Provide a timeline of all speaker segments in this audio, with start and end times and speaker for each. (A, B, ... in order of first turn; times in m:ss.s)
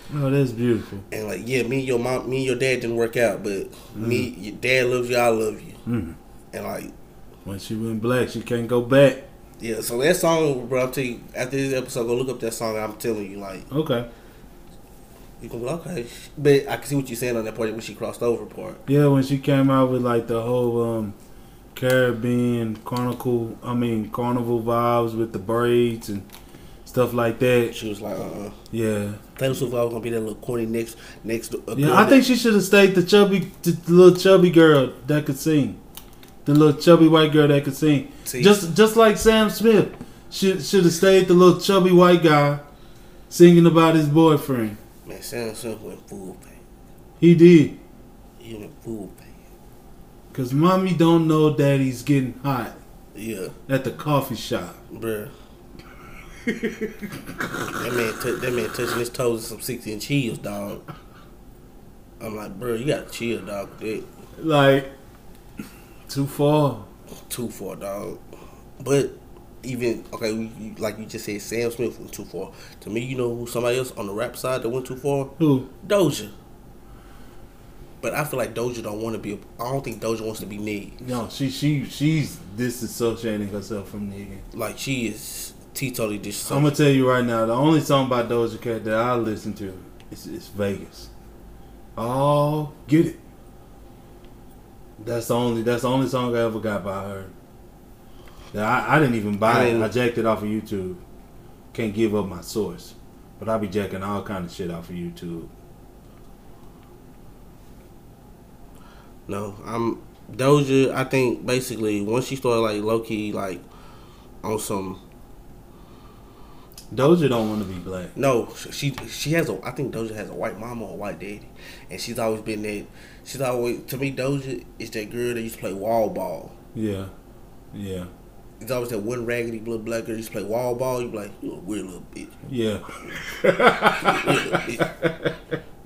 0:00.1-0:01.0 A
0:01.1-0:05.8 B
0:03.9-0:04.3 A
0:05.8-0:06.2 A
0:06.5-0:06.9 B
0:07.4-0:09.3 A
0:09.6-0:13.7 B
0:13.7-0:14.1 A
0:15.4-0:18.8 B
0:18.9-0:21.2 A
0:21.7-0:26.2 A
0:26.8-0:27.7 A
0:27.7-0:28.6 B
0:28.7-0:29.2 A
0:29.4-0:32.2 B
0:31.7-0:35.8 A
0:36.4-0:42.6 A
0:38.2-0:38.6 B
0:43.3-0:44.8 A
0:45.0-0:46.6 B
0:47.2-0:47.8 A
0:48.4-0:49.3 B
0:50.3-0:52.8 A
0:53.1-0:53.5 B
0:53.7-0:54.8 A
0:54.9-0:55.3 B
0:56.4-0:57.2 A
0:57.7-1:00.8 B
1:02.2-1:04.0 B
1:04.4-1:04.9 A
1:06.1-1:06.9 A
1:07.3-1:08.2 B
1:08.8-1:16.3 B
1:15.4-1:15.7 A
1:18.0-1:21.0 B
1:21.0-1:24.4 A
1:24.5-1:26.7 B
1:26.5-1:31.1 A
1:32.0-1:33.2 A
1:35.0-1:37.3 A
1:38.5-1:41.0 A
1:39.4-1:39.9 B
1:41.7-1:45.5 A
1:49.3-1:53.6 B
1:54.4-1:55.0 B
1:56.9-1:58.1 A
1:58.1-2:06.5 B
2:06.7-2:07.1 A
2:07.7-2:08.1 A
2:08.6-2:12.4 B
2:12.5-2:15.4 A
2:14.0-2:14.9 B